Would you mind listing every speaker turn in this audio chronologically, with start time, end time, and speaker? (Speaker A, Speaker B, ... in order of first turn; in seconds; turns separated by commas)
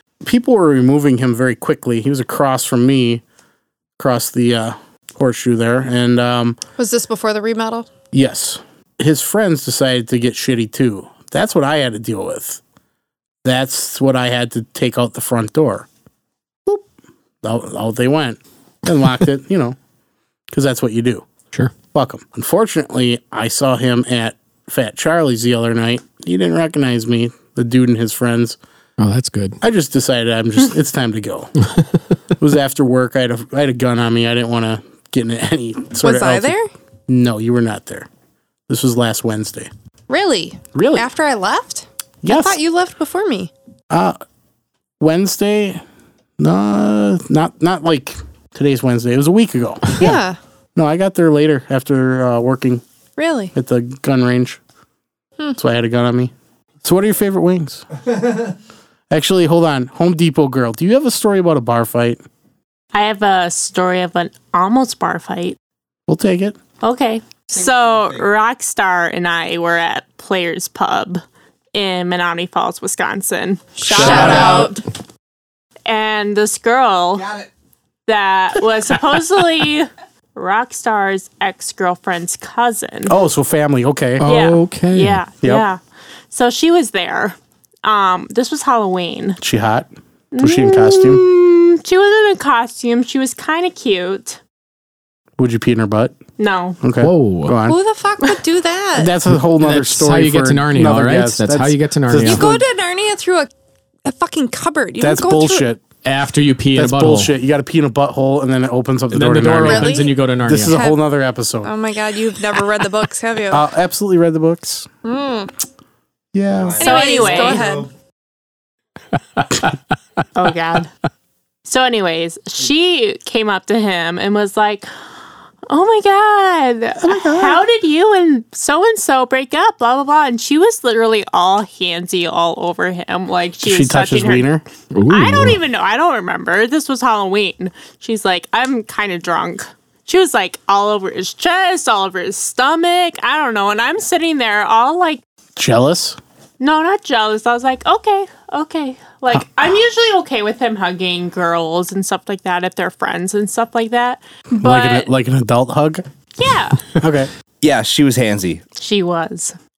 Speaker A: 0.2-3.2, Speaker A: 4.0-6.6, Speaker B: 6.8-7.9, Speaker A: 8.1-12.6, Speaker A: 13.4-15.9, Speaker A: 17.4-19.8, Speaker A: 20.5-21.3, Speaker A: 21.9-28.6, Speaker C: 29.0-29.6, Speaker A: 29.6-31.5, Speaker A: 32.4-36.5, Speaker B: 36.0-36.7, Speaker A: 37.1-38.1, Speaker A: 38.7-39.7, Speaker B: 40.1-43.5, Speaker A: 40.8-41.1, Speaker A: 42.2-42.6, Speaker A: 43.9-44.2, Speaker A: 45.0-45.8, Speaker A: 46.4-50.2, Speaker B: 50.0-50.4, Speaker A: 50.8-52.8, Speaker B: 53.2-53.5, Speaker A: 53.5-54.6, Speaker A: 55.6-56.3, Speaker A: 56.8-57.9, Speaker A: 59.1-62.2, Speaker D: 62.9-65.6, Speaker A: 66.1-66.6, Speaker D: 66.8-71.2, Speaker D: 71.7-74.8, Speaker B: 73.8-74.8, Speaker A: 73.9-74.7, Speaker C: 73.9-74.7, Speaker D: 75.9-77.3, Speaker E: 77.2-77.5, Speaker D: 78.1-83.1, Speaker A: 83.1-84.3, Speaker C: 84.2-85.2, Speaker D: 84.2-85.8, Speaker D: 86.3-89.4, Speaker A: 89.4-91.2, Speaker D: 90.3-94.4, Speaker A: 95.4-96.2, Speaker D: 96.4-96.8, Speaker A: 96.8-97.8, Speaker C: 97.0-97.6, Speaker B: 97.7-99.1, Speaker A: 99.0-102.6, Speaker C: 99.5-102.5, Speaker B: 102.2-103.5, Speaker B: 104.0-105.7, Speaker A: 105.0-105.8, Speaker C: 106.0-107.3, Speaker A: 106.8-111.7, Speaker C: 109.1-110.8, Speaker B: 109.6-110.2, Speaker B: 110.7-111.0, Speaker B: 111.6-113.7, Speaker A: 113.5-114.9, Speaker B: 115.0-115.5, Speaker A: 116.3-116.8, Speaker E: 116.5-117.9, Speaker D: 116.8-117.8, Speaker B: 116.8-117.9, Speaker D: 120.3-120.9, Speaker D: 121.7-124.9, Speaker D: 125.7-134.5, Speaker A: 127.0-127.6, Speaker A: 133.6-134.7, Speaker C: 134.9-135.6, Speaker D: 135.1-145.2, Speaker A: 145.6-146.2, Speaker D: 146.6-155.1, Speaker A: 154.6-156.0, Speaker D: 156.4-156.9, Speaker A: 156.9-157.3, Speaker E: 157.6-158.6, Speaker D: 158.8-159.6